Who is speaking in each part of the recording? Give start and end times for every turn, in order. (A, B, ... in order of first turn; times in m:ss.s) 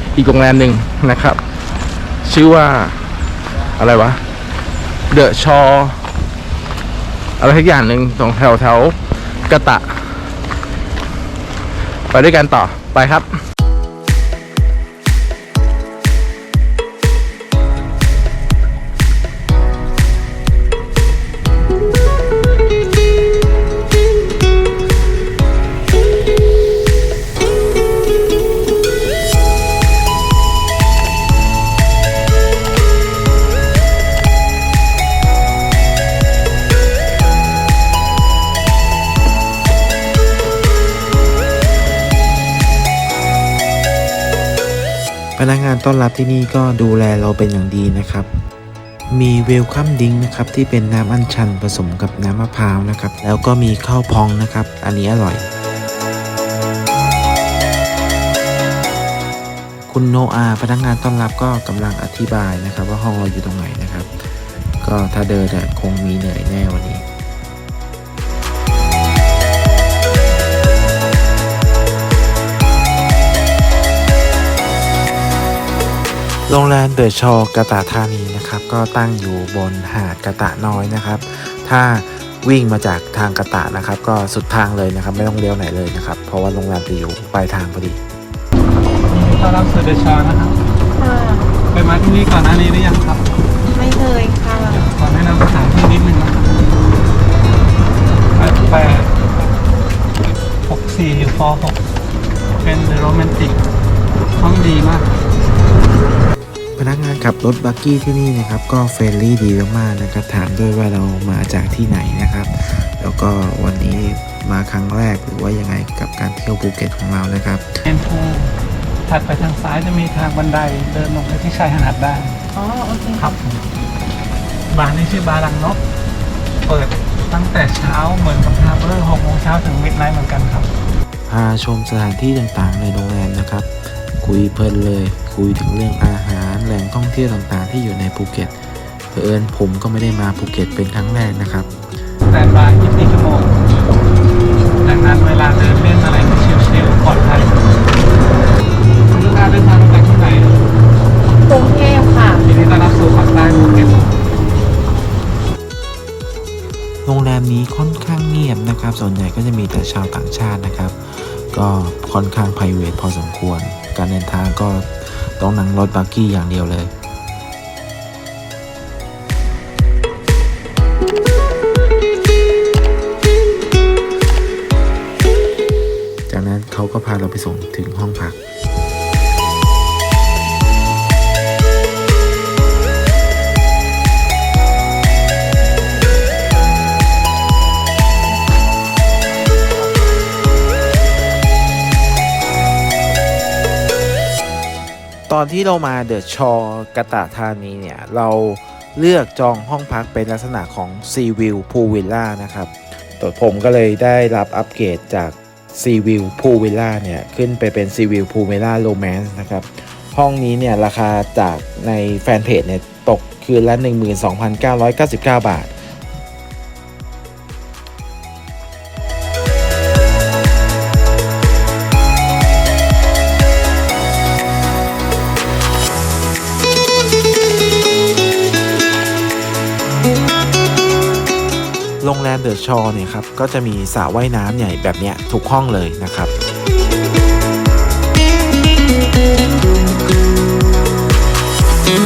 0:00.2-0:01.4 A
0:02.2-0:02.9 A
0:03.7-0:04.2 A
0:05.1-0:06.0 A
0:07.4-0:10.3 A
0:12.1-0:13.3 A
0:45.4-0:48.3 B
0:49.1-0:55.5 B
0:59.9-1:07.0 B
1:16.5-1:28.0 B
1:29.1-1:30.6 C
1:31.0-1:31.5 D
1:31.7-1:33.2 C
1:33.7-1:34.8 D
1:34.6-1:36.6 C
1:38.3-1:39.2 C
1:40.6-1:41.8 C
1:42.6-1:43.6 C
1:44.4-1:45.0 C
1:46.8-1:57.7 B
1:57.8-1:58.5 C
1:59.0-2:02.4 C
2:02.5-2:03.2 D
2:03.2-2:03.6 C
2:04.7-2:05.8 C
2:06.6-2:10.7 C
2:11.3-2:18.6 B
2:19.1-2:21.7 B
2:22.3-2:23.6 C
2:24.8-2:27.6 C
2:29.1-2:30.6 C
2:31.4-2:32.4 D
2:32.4-2:34.1 C
2:37.0-2:46.9 B
2:56.3-2:58.4 B
3:15.3-3:35.7 B
3:52.0-3:56.3 B